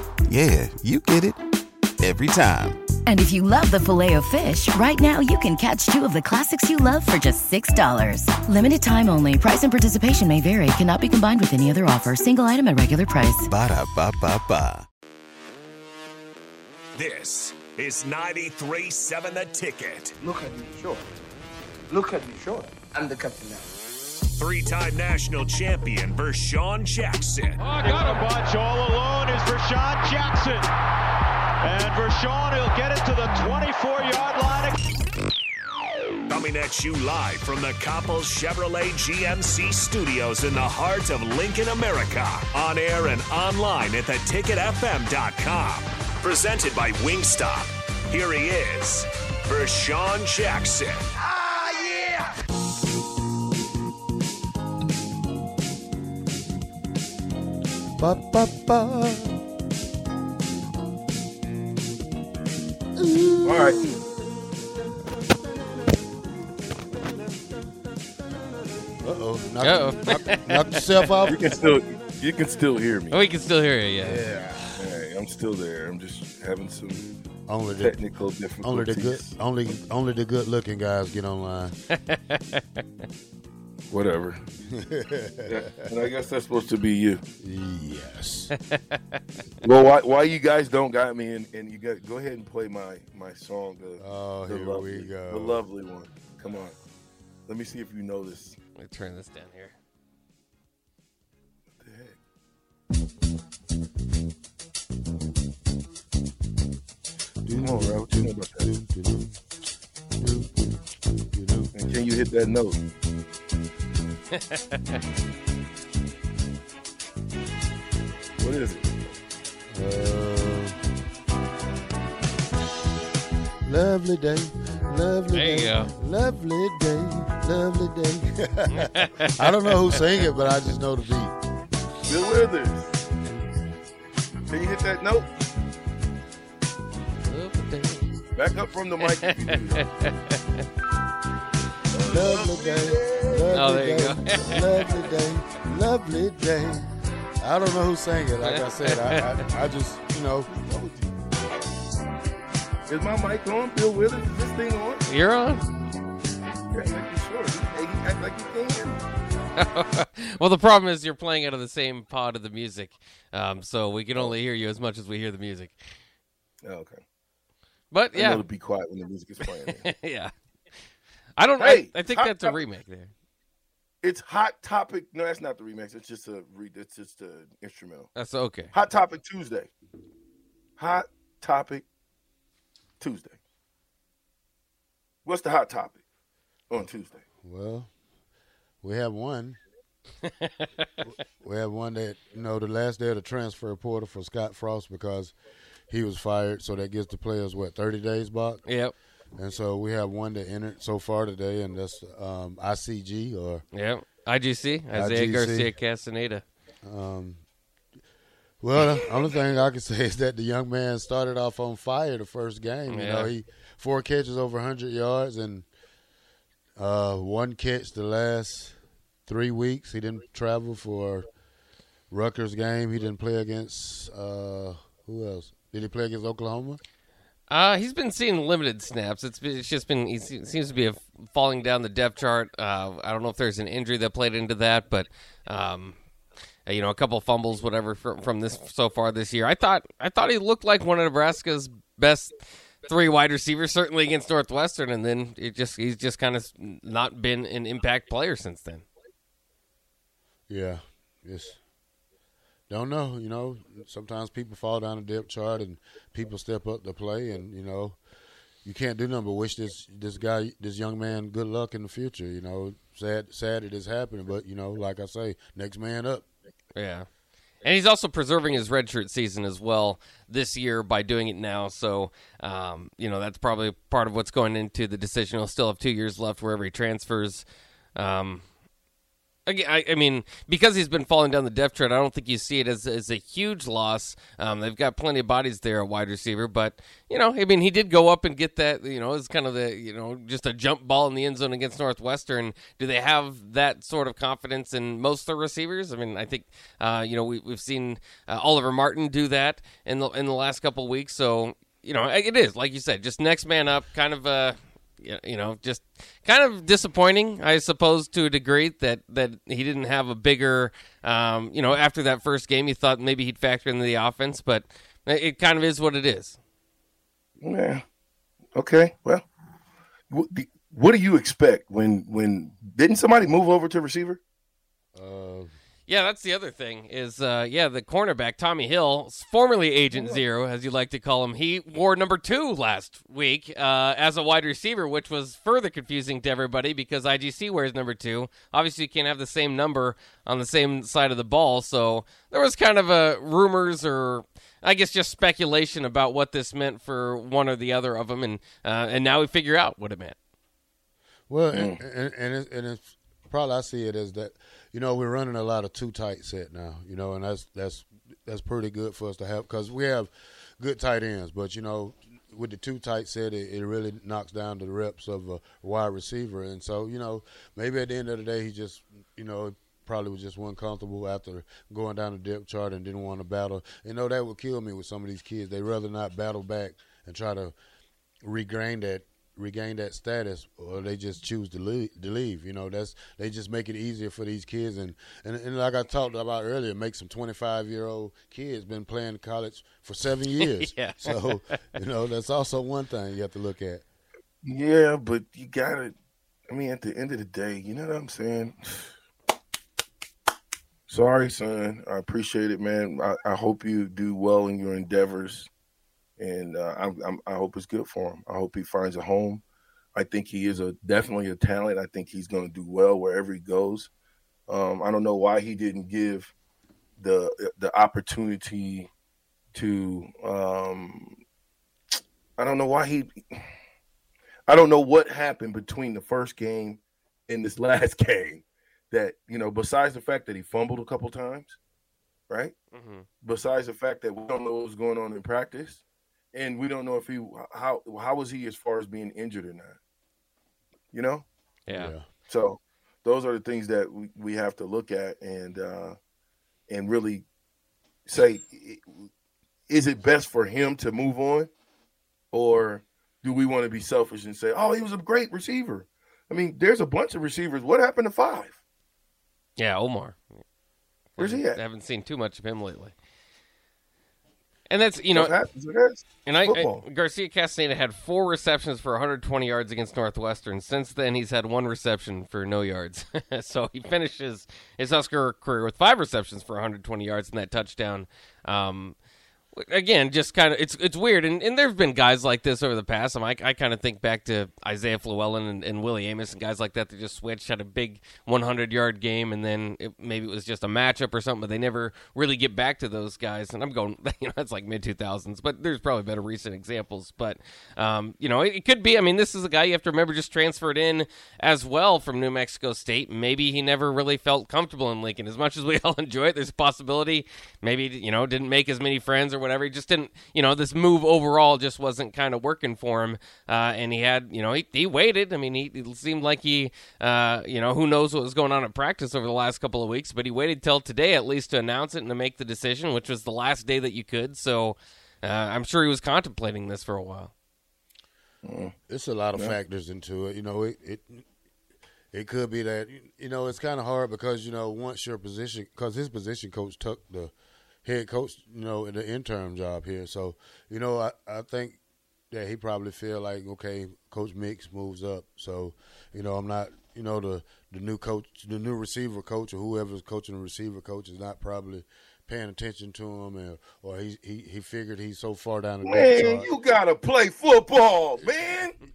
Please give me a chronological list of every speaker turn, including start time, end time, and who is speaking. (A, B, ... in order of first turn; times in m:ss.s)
0:00.3-0:01.4 A
0:02.0-0:02.8 A
0:03.0-0:13.5 B
0:13.5-0:14.9 A
0:17.0-0:20.2 C
0:20.2-0:21.1 D
0:21.9-0:23.7 D
0:24.4-0:27.6 C
0:27.6-0:30.7 E
0:27.7-0:28.4 F
0:31.6-0:34.8 E
0:36.3-0:51.1 C
0:58.0-0:59.4 G
1:03.0-1:04.1 G
1:03.4-1:03.8 H
1:09.0-1:11.8 G
1:09.6-1:11.1 F
1:11.2-1:13.2 H
1:13.1-1:14.2 F
1:14.0-1:14.9 G
1:14.8-1:17.1 H
1:17.5-1:18.0 G
1:17.8-1:19.3 H
1:18.6-1:21.8 G
1:21.9-1:22.8 F
1:23.9-1:24.4 H
1:24.7-1:25.8 G
1:25.5-1:27.2 H
1:27.4-1:28.5 G
1:28.7-1:29.2 F
1:29.6-1:36.8 H
1:34.0-1:35.6 G
1:37.5-1:38.6 H
1:38.8-1:39.8 F
1:41.8-1:42.2 H
1:47.4-1:49.4 G
1:47.6-1:48.7 H
1:50.2-1:51.7 G
1:51.7-1:52.8 H
1:54.3-1:55.0 F
1:58.4-1:58.9 H
1:59.7-2:00.8 G
2:03.6-2:11.3 G
2:05.3-2:05.9 F
2:08.7-2:10.0 F
2:12.0-2:13.0 H
2:14.5-2:15.3 H
2:17.2-2:18.1 F
2:18.4-2:19.9 H
2:19.0-2:20.6 F
2:21.9-2:23.6 H
2:22.1-2:30.5 G
2:23.5-2:24.8 F
2:28.4-2:29.4 F
2:30.5-2:31.2 H
2:32.9-2:35.0 H
2:35.1-2:35.7 F
2:36.7-2:39.0 H
2:39.6-2:45.9 F
2:46.6-2:47.0 H
2:47.9-2:48.4 F
2:48.1-2:49.9 H
2:49.5-2:50.3 F
2:51.4-2:53.1 F
2:51.6-2:52.6 H
2:54.0-2:58.1 H
2:58.2-2:58.7 F
2:58.7-2:59.7 H
3:00.8-3:01.8 H
3:03.0-3:03.4 H
3:05.2-3:06.0 H
3:06.7-3:07.2 H
3:07.4-3:07.9 G
3:08.8-3:09.6 G
3:10.2-3:10.8 F
3:11.4-3:15.3 G
3:15.9-3:18.6 G
3:18.7-3:18.9 F
3:19.4-3:23.6 G
3:23.7-3:26.4 F
3:24.9-3:25.7 G
3:26.8-3:27.4 G
3:28.6-3:35.7 G
3:32.9-3:33.3 F
3:36.8-3:38.8 G
3:39.3-3:41.3 G
3:42.1-3:46.8 G
3:47.5-3:56.0 F
3:56.7-4:08.8 F
4:10.5-4:11.6 G
4:12.7-4:18.0 G
4:18.6-4:26.2 G
4:26.8-4:27.1 F
4:27.6-4:37.4 F
4:38.0-4:38.4 F
4:39.4-5:16.4 F
5:17.4-5:17.8 H
5:18.5-5:19.2 H
5:20.1-5:24.2 H
5:24.9-5:25.5 G
5:25.9-5:50.2 F
5:29.9-5:30.2 H
5:51.3-6:17.5 G
5:51.5-5:51.8 H
6:18.2-6:33.8 G
6:30.4-6:31.6 F
6:34.4-6:35.9 H
6:36.5-6:38.9 H
6:40.9-6:45.5 H
6:46.2-6:49.4 H
6:49.9-6:53.9 H
6:54.5-6:56.3 H
6:57.0-6:58.9 H
6:59.5-7:01.2 H
7:02.4-7:03.5 H
7:04.5-7:11.6 H
7:12.3-7:12.5 H
7:12.7-7:13.1 F
7:13.2-7:15.8 H
7:16.3-7:19.8 H
7:20.9-7:21.2 H
7:21.7-7:21.9 F
7:21.7-7:22.1 G
7:22.3-7:26.0 H
7:26.7-7:27.2 H
7:28.1-7:29.1 H
7:29.7-7:31.5 H
7:32.3-7:38.6 H
7:39.6-7:40.2 F
7:41.2-7:42.9 F
7:41.2-7:41.6 H
7:44.7-7:45.3 F
7:45.1-7:46.8 H
7:46.2-7:59.0 F
7:59.5-8:47.3 F
8:48.4-8:48.8 H
8:48.9-8:51.2 G
8:52.1-8:57.3 G
8:57.8-9:01.8 G
9:02.3-9:16.5 G
9:15.8-9:18.8 H